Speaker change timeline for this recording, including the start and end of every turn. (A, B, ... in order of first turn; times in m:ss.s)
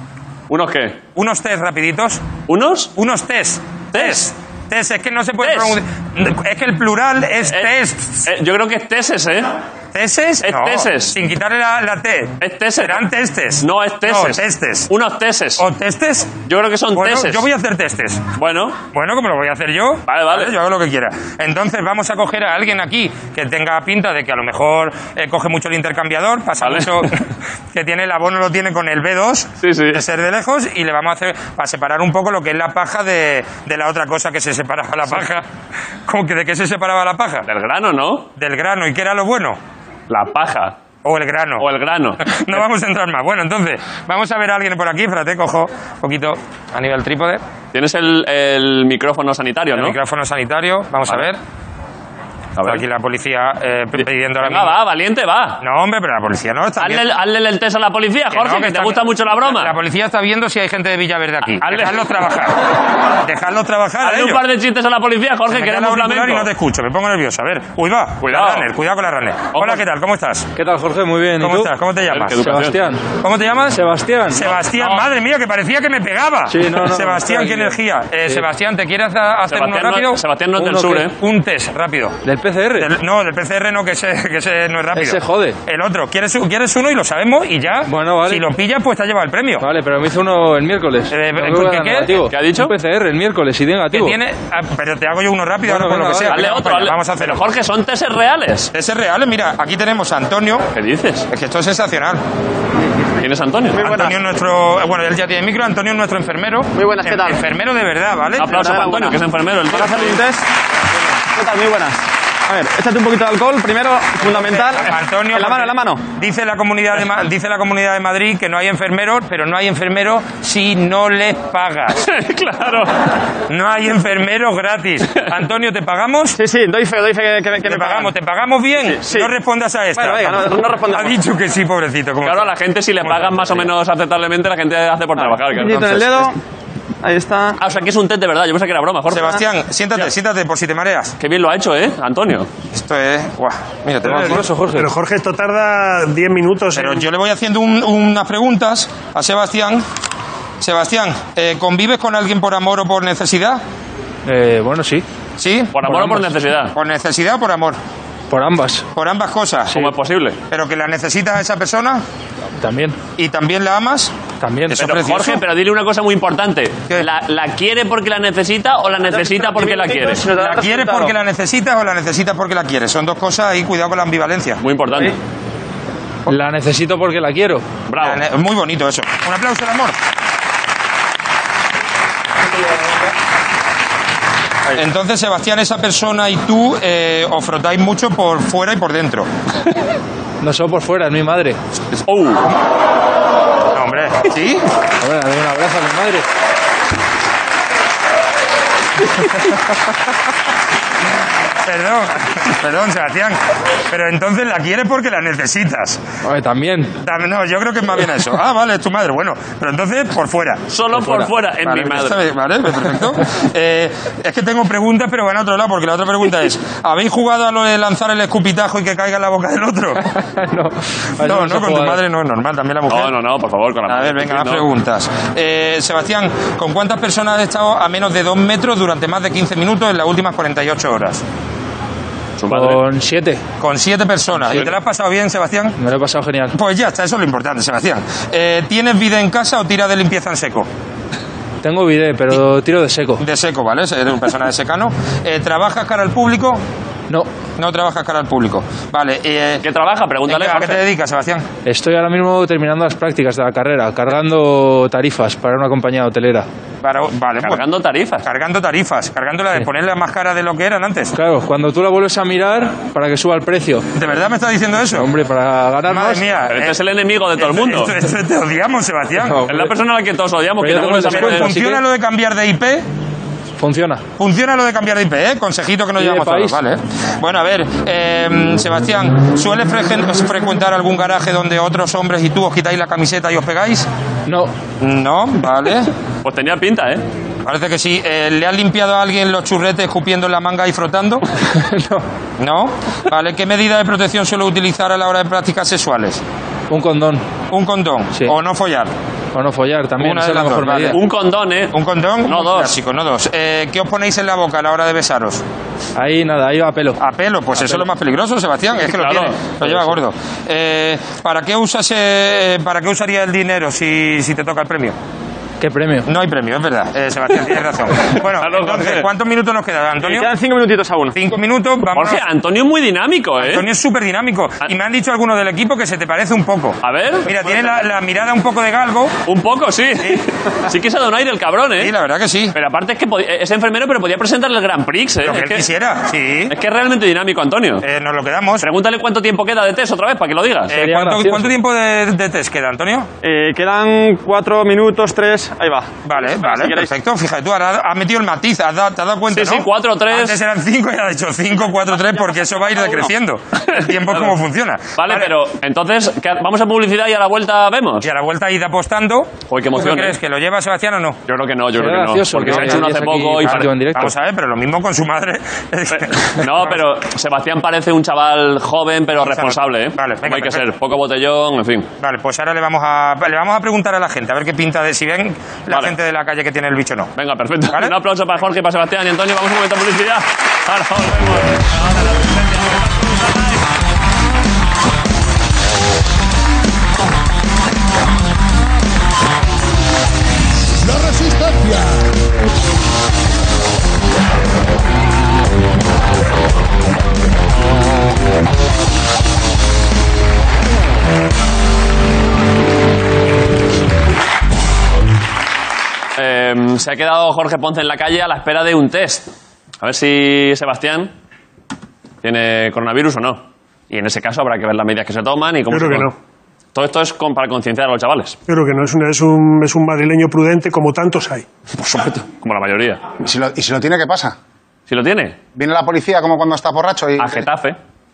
0:00.5-0:01.0 A
0:01.2-0:02.2 B
0:02.5-0:02.9 A
0:03.0-0:08.3 B
0:03.9-0:04.2 A
0:05.4-0:05.8 A
0:07.5-0:07.7 A
0:08.2-0:09.5 A
0:09.9-0:14.9 B
0:10.4-0:11.2 A
0:12.4-0:13.0 A
0:13.6-0:15.6 A
0:15.6-0:16.4 B
0:16.4-0:17.4 A
0:16.9-0:18.2 B
0:18.4-0:18.8 A
0:18.9-0:35.4 B
0:20.1-0:20.6 A
0:26.6-0:27.1 A
0:29.6-0:30.0 A
0:36.1-0:37.4 B
0:37.5-0:38.3 A
0:38.4-0:39.6 B
0:40.1-0:40.8 A
0:41.0-0:41.6 B
0:41.6-0:42.6 A
0:42.2-0:47.4 B
0:47.7-0:50.0 A
0:49.8-0:51.4 B
0:52.6-0:52.8 A
0:52.6-0:54.8 B
0:54.0-0:55.6 A
0:55.6-0:57.0 B
0:56.8-0:59.8 A
0:58.3-1:02.6 B
1:01.6-1:02.0 A
1:03.2-1:04.4 B
1:04.0-1:06.5 A
1:05.5-1:10.5 B
1:08.2-1:08.7 A
1:09.5-1:09.8 A
1:10.6-1:11.7 C
1:11.4-1:12.4 B
1:12.1-1:12.8 A
1:12.4-1:13.1 C
1:13.2-1:20.2 B
1:13.7-1:14.5 C
1:14.5-1:15.1 A
1:16.5-1:18.4 C
1:19.5-1:21.2 A
1:20.6-1:21.1 C
1:21.1-1:22.1 B
1:22.2-1:22.9 C
1:22.8-1:29.6 B
1:24.9-1:25.6 C
1:27.8-1:28.4 C
1:29.6-1:34.2 C
1:31.1-1:32.2 B
1:32.3-1:32.7 A
1:33.9-1:37.4 B
1:35.6-1:36.4 C
1:36.3-1:38.7 A
1:38.7-1:40.7 B
1:40.7-1:41.3 A
1:41.3-1:42.2 B
1:43.2-1:43.8 A
1:43.7-1:44.2 D
1:43.8-1:48.5 B
1:46.8-1:47.4 D
1:48.4-1:50.2 A
1:48.4-1:50.4 D
1:51.3-1:56.0 D
1:54.4-2:02.0 B
2:02.0-2:03.1 A
2:03.5-2:06.4 B
2:06.4-2:08.1 D
2:07.6-2:12.5 B
2:08.8-2:09.3 D
2:10.0-2:11.2 D
2:12.2-2:15.9 A
2:13.1-2:13.5 B
2:15.2-2:16.4 D
2:17.0-2:17.6 D
2:17.6-2:19.4 A
2:19.1-2:21.1 B
2:21.2-2:22.5 A
2:22.7-2:24.4 B
2:24.0-2:24.9 C
2:24.8-2:27.0 E
2:26.7-2:29.8 B
2:30.6-2:33.6 B
2:34.2-2:35.0 C
2:35.4-2:36.0 B
2:35.7-2:36.7 A
2:35.9-2:36.2 C
2:36.7-2:37.8 B
2:38.3-2:38.9 C
2:38.9-2:39.8 B
2:39.7-2:40.4 A
2:40.5-2:42.0 B
2:42.6-2:43.0 C
2:43.2-2:44.1 B
2:44.4-2:44.8 C
2:44.7-2:45.4 B
2:44.8-2:50.2 A
2:49.1-2:51.1 D
2:50.3-2:54.6 B
2:54.6-2:55.2 A
2:56.3-2:57.6 C
2:57.9-2:58.2 A
2:58.0-3:00.0 B
3:04.7-3:09.3 B
3:10.4-3:11.6 C
3:11.9-3:12.5 A
3:13.7-3:14.6 B
3:15.0-3:16.2 C
3:19.2-3:19.5 C
3:21.6-3:23.4 B
3:23.9-3:26.0 B
3:26.2-3:27.0 C
3:27.0-3:30.6 B
3:30.7-3:32.2 A
3:31.6-3:40.0 B
3:40.0-3:42.0 C
3:41.2-3:43.1 B
3:42.9-3:44.7 A
3:43.9-3:51.2 B
3:52.4-3:52.8 A
3:52.5-3:53.4 C
3:53.6-3:55.7 B
3:55.8-3:56.5 C
3:56.5-4:00.7 B
4:01.6-4:03.2 C
4:03.2-4:06.6 B
4:07.6-4:09.6 B
4:09.6-4:10.8 A
4:10.3-4:11.4 B
4:11.6-4:16.4 C
4:16.8-4:17.6 B
4:17.4-4:18.3 A
4:18.2-4:21.1 B
4:21.1-4:23.9 C
4:23.9-4:25.1 B
4:24.9-4:26.2 C
4:25.9-4:26.8 B
4:26.5-4:28.0 A
4:27.4-4:29.4 B
4:29.2-4:29.7 C
4:29.5-4:31.6 A
4:30.6-4:31.8 C
4:31.0-4:32.8 B
4:33.6-4:34.0 C
4:34.2-4:43.9 B
4:36.0-4:36.6 C
4:44.3-4:44.5 C
4:44.8-4:45.9 B
4:46.2-4:47.0 A
4:47.4-4:51.2 B
4:51.5-4:52.0 C
4:52.4-4:56.2 B
4:56.7-4:57.2 C
4:57.5-4:58.9 B
4:59.3-5:01.0 C
5:00.0-5:01.0 B
5:00.9-5:02.8 A
5:01.7-5:05.4 B
5:06.0-5:07.0 C
5:07.0-5:14.9 B
5:07.6-5:07.9 C
5:08.8-5:09.4 A
5:09.6-5:09.9 C
5:15.6-5:16.1 C
5:16.0-5:20.3 B
5:18.0-5:19.1 A
5:20.0-5:21.2 D
5:21.1-5:22.2 B
5:21.9-5:23.6 A
5:23.4-5:29.2 B
5:26.8-5:27.7 A
5:29.2-5:31.9 A
5:31.8-5:32.5 B
5:32.5-5:35.6 A
5:35.2-5:36.5 B
5:36.5-5:37.8 A
5:37.8-5:38.6 B
5:38.6-5:40.8 A
5:40.7-5:43.1 B
5:40.7-5:41.5 C
5:43.2-5:46.9 D
5:46.0-5:55.3 B
5:49.3-5:50.4 A
5:53.7-5:54.3 A
5:55.0-5:58.1 A
5:58.0-6:01.2 B
5:59.5-6:00.2 A
6:01.3-6:04.0 A
6:01.7-6:04.1 C
6:02.5-6:02.8 B
6:03.4-6:06.8 B
6:05.9-6:11.9 A
6:09.2-6:10.6 B
6:12.0-6:17.1 B
6:15.7-6:16.0 A
6:17.2-6:23.7 A
6:46.1-6:51.1 A
6:52.2-6:56.1 A
6:55.7-6:56.1 E
6:56.7-6:58.4 A
6:58.5-7:01.4 E
7:01.7-7:03.0 A
7:03.2-7:04.4 F
7:04.9-7:05.4 A
7:05.5-7:07.4 F
7:07.2-7:07.8 A